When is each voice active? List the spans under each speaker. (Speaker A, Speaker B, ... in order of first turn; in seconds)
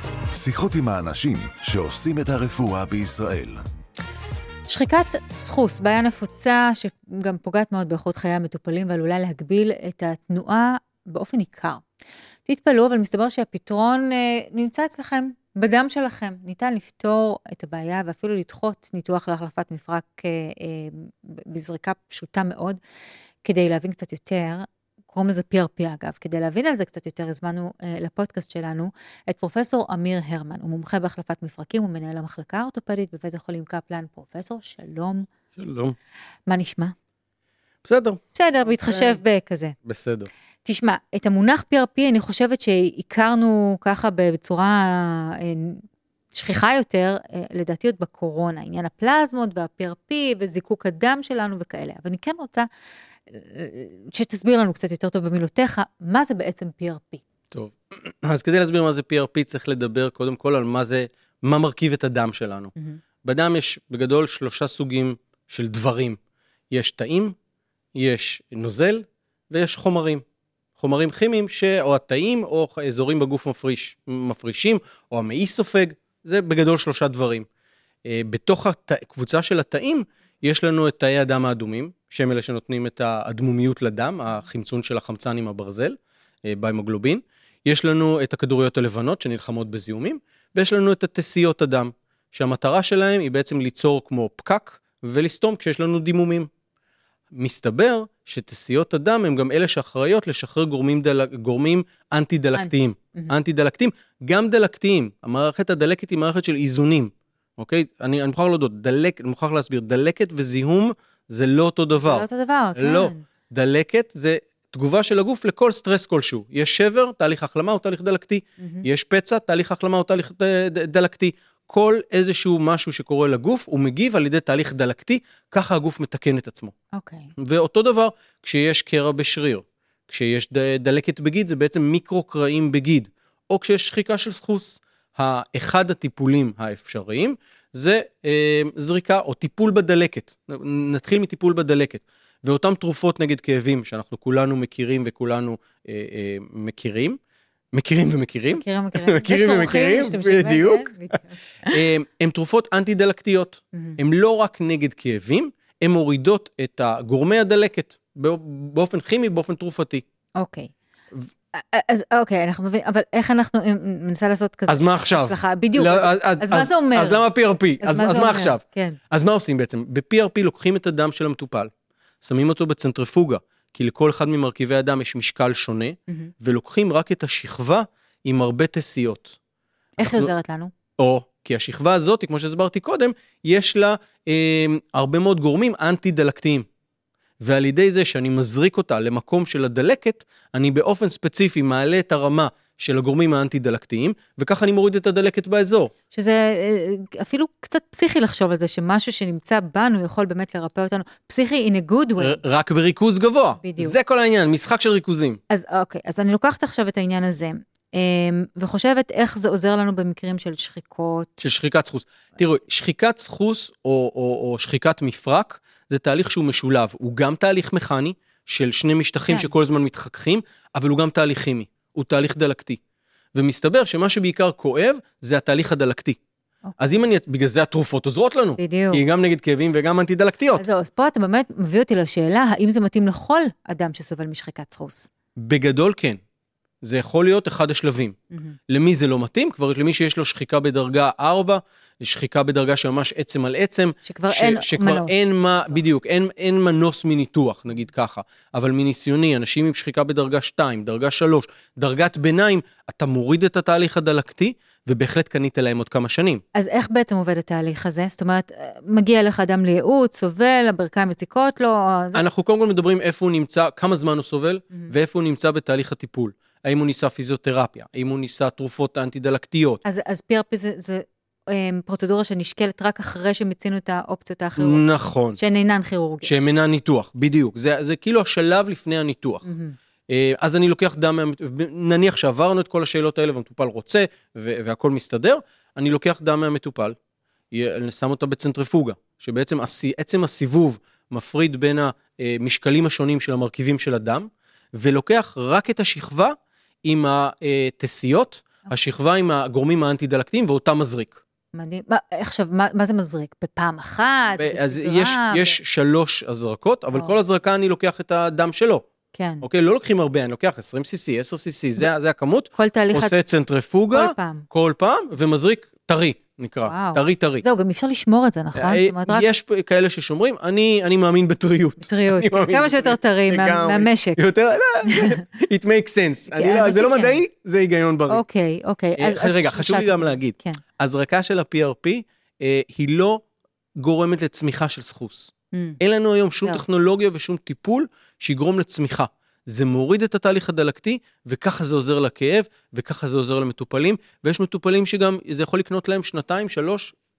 Speaker A: 0.3-3.6
Speaker B: 4.7-11.8, 12.5-22.8, 23.4-35.3, 36.5-37.0, 38.3-39.8, 40.6-52.7, 53.3-57.2, 102.6-103.3, 112.0-113.2, 118.6-118.8, 126.9-127.3, 148.5-151.8, 160.4-160.7, 161.5-167.2, 167.8-169.0, 180.0-180.7, 196.1-202.4, 203.6-204.0, 205.5-211.4, 226.7-227.0, 228.6-229.1, 230.6-235.1, 244.0-245.8, 256.5-262.2, 269.8-276.3, 279.4-279.8, 301.5-305.6, 309.1-309.5, 312.6-313.2, 313.9-314.5, 316.6-319.3, 321.8-324.2, 324.9-325.1, 326.3-327.2, 328.1-330.6, 335.5-335.8
Speaker C: 35.6-36.0, 37.9-38.2, 38.8-39.2, 39.9-40.3, 57.5-62.7, 63.2-66.2, 66.7-67.3, 68.0-70.2, 70.8-77.5, 78.1-96.5, 97.3-126.7, 127.4-147.2, 147.7-151.1, 151.7-160.0, 164.7-171.7, 172.2-179.4, 180.0-180.3, 181.0-186.7, 187.4-195.9, 202.2-205.4, 211.4-222.8, 223.3-226.2, 226.8-230.6, 235.4-236.2, 236.8-238.2, 238.7-256.4, 262.1-269.8, 274.6-275.4, 276.2-279.5, 280.1-287.0, 287.5-301.2, 304.3-308.8, 309.4-317.4, 318.6-328.2, 329.0-333.2, 333.8-346.9